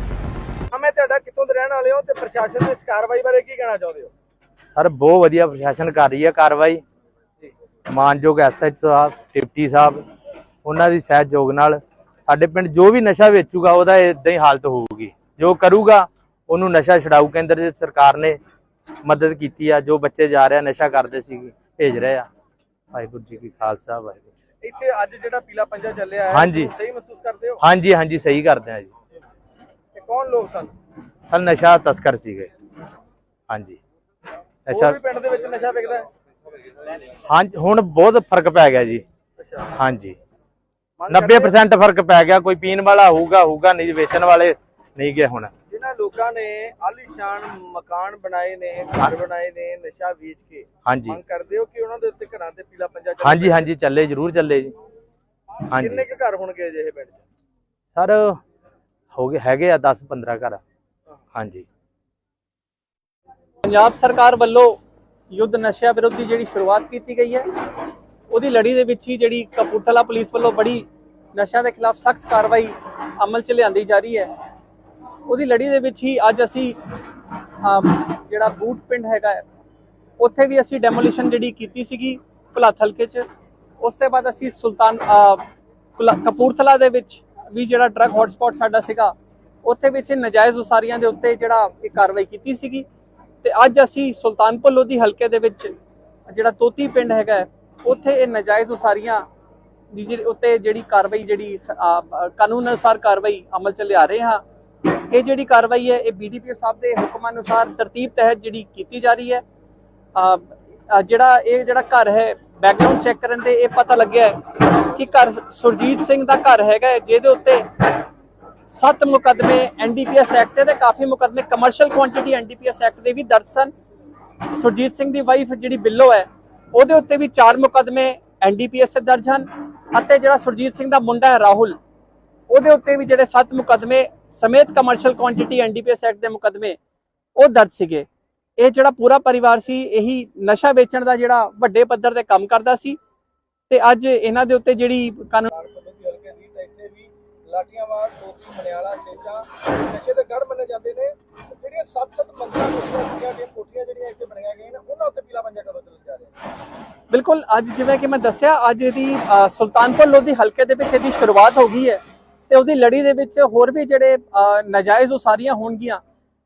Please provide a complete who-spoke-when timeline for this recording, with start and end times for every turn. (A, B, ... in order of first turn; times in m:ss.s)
0:00.7-0:04.1 A
0:04.7-0:06.8 B
0:07.9-0:10.0 B
0:10.6-0:18.4 B
0:19.0-0:22.3 B
0:22.9-0:24.3 B
0:24.6-0:27.6 A
0:26.3-0:26.7 B
0:27.6-0:28.9 B
0:29.9-0:30.7 A
0:31.3-0:32.5 B
0:33.5-0:33.8 B
0:34.7-0:35.0 B
0:34.7-0:36.1 A
0:37.3-0:39.0 B
0:39.4-0:39.7 A
0:39.8-0:40.2 B
0:41.0-0:41.6 A
0:41.1-0:45.5 B
0:45.7-0:53.7 A
0:50.9-0:51.2 B
0:53.2-0:54.7 B
0:55.7-0:56.0 B
0:55.8-0:57.2 A
0:58.0-0:58.4 B
0:59.1-1:00.6 B
1:01.4-1:01.6 B
1:03.6-1:04.8 C
1:05.3-1:07.4 C
1:08.3-1:14.3 C
1:15.3-1:16.8 C
1:17.6-1:19.4 C
1:20.2-1:23.2 C
1:23.8-1:25.4 C
1:26.0-1:29.1 C
1:29.6-1:32.9 C
1:33.4-1:35.7 C
1:36.3-1:39.2 C
1:39.9-1:44.4 C
1:45.1-1:49.4 C
1:50.1-1:57.7 C
1:58.7-2:03.7 C
2:04.6-2:11.8 C
2:12.5-2:16.8 C
2:17.4-2:18.1 C
2:18.6-2:23.0 C
2:23.7-2:25.5 C
2:25.5-2:36.3 A
2:37.1-2:46.0 C